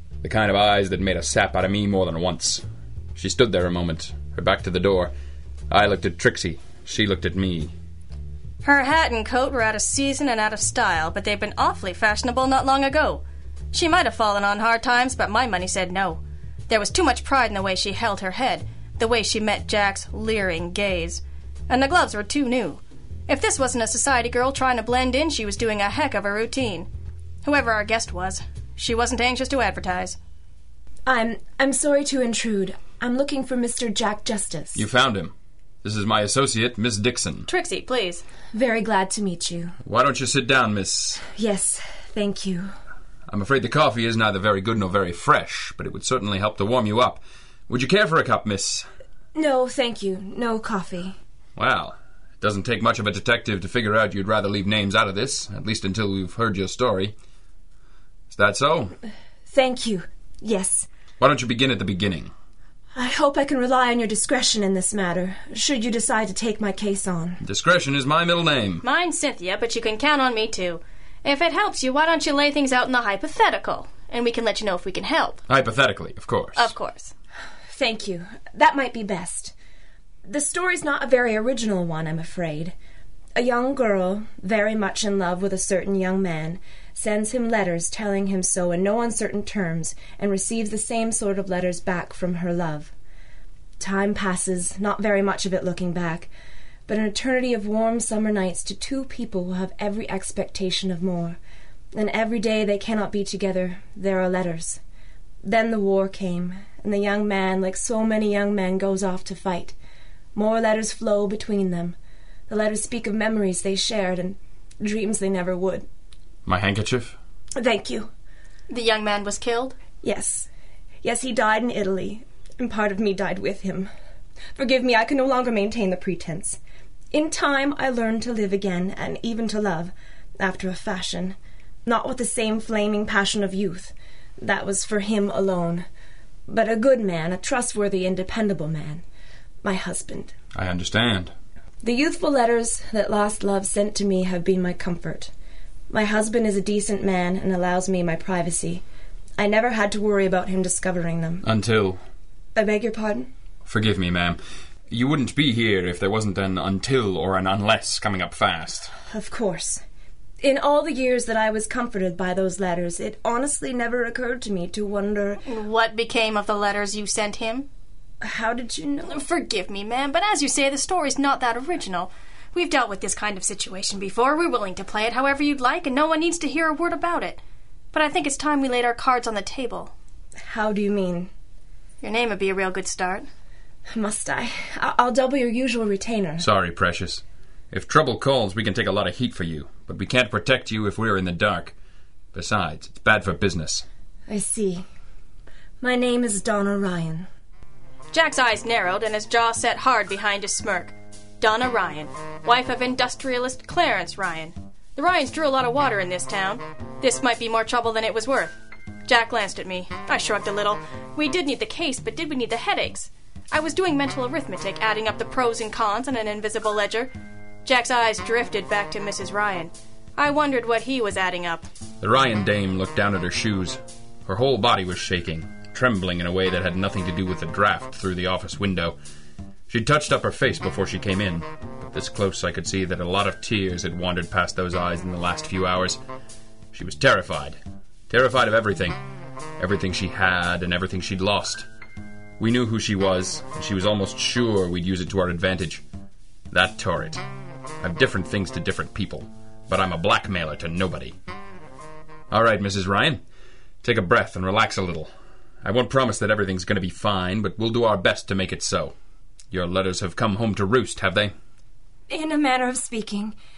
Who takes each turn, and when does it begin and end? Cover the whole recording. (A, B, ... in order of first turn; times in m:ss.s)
0:00.2-0:02.6 A
0:03.2-0:05.1 A
0:05.7-0:07.7 A
0:08.6-0:26.9 B
0:27.4-0:30.2 B
0:31.1-0:34.8 C
0:34.8-0:37.5 A
0:37.5-0:38.2 B
0:38.5-0:39.8 C
0:39.8-0:41.3 A
0:41.3-0:42.7 C
0:43.3-0:48.9 A
0:49.3-0:51.2 C
0:51.6-0:57.2 A
0:58.3-0:59.0 A
0:59.5-1:00.9 C
1:01.2-1:02.3 A
1:03.0-1:07.4 C
1:07.4-1:08.8 A
1:08.8-1:15.4 B
1:15.5-1:16.7 A
1:16.6-1:17.1 B
1:17.7-1:19.5 C
1:20.3-1:22.7 C
1:23.4-1:32.9 C
1:33.8-1:36.3 C
1:36.9-1:41.4 C
1:41.9-1:44.8 C
1:45.4-1:49.8 C
1:50.4-1:52.0 C
1:52.5-1:55.9 C
1:56.5-1:57.2 A
1:57.6-1:58.1 C
1:58.7-1:59.8 B
2:00.0-2:00.5 C
2:01.0-2:03.9 C
2:04.6-2:06.6 C
2:07.1-2:15.9 C
2:16.5-2:19.0 C
2:19.6-2:20.3 C
2:20.5-2:21.3 A
2:21.8-2:25.3 C
2:25.9-2:28.8 C
2:29.4-2:31.4 C
2:31.4-2:32.0 A
2:32.6-2:33.3 C
2:33.6-2:34.4 A
2:34.9-2:38.9 A
2:39.1-2:39.8 C
2:40.4-2:45.4 C
2:45.4-2:47.7 B
2:48.2-2:49.2 C
2:49.1-2:57.4 B
2:57.9-2:59.9 B
3:00.4-3:01.3 C
3:02.0-3:03.3 B
3:03.9-3:06.5 C
3:06.4-3:11.7 A
3:12.3-3:13.9 A
3:14.3-3:14.8 C
3:15.8-3:17.3 C
3:18.1-3:37.1 B
3:37.6-3:41.7 B
3:42.0-3:49.0 A
3:49.7-3:56.0 A
3:56.7-3:59.0 A
3:59.6-4:01.7 A
4:02.4-4:05.8 A
4:06.5-4:07.2 A
4:07.8-4:11.2 A
4:12.3-4:13.2 A
4:13.8-4:15.1 A
4:15.6-4:19.0 A
4:19.5-4:21.3 A
4:22.1-4:23.4 C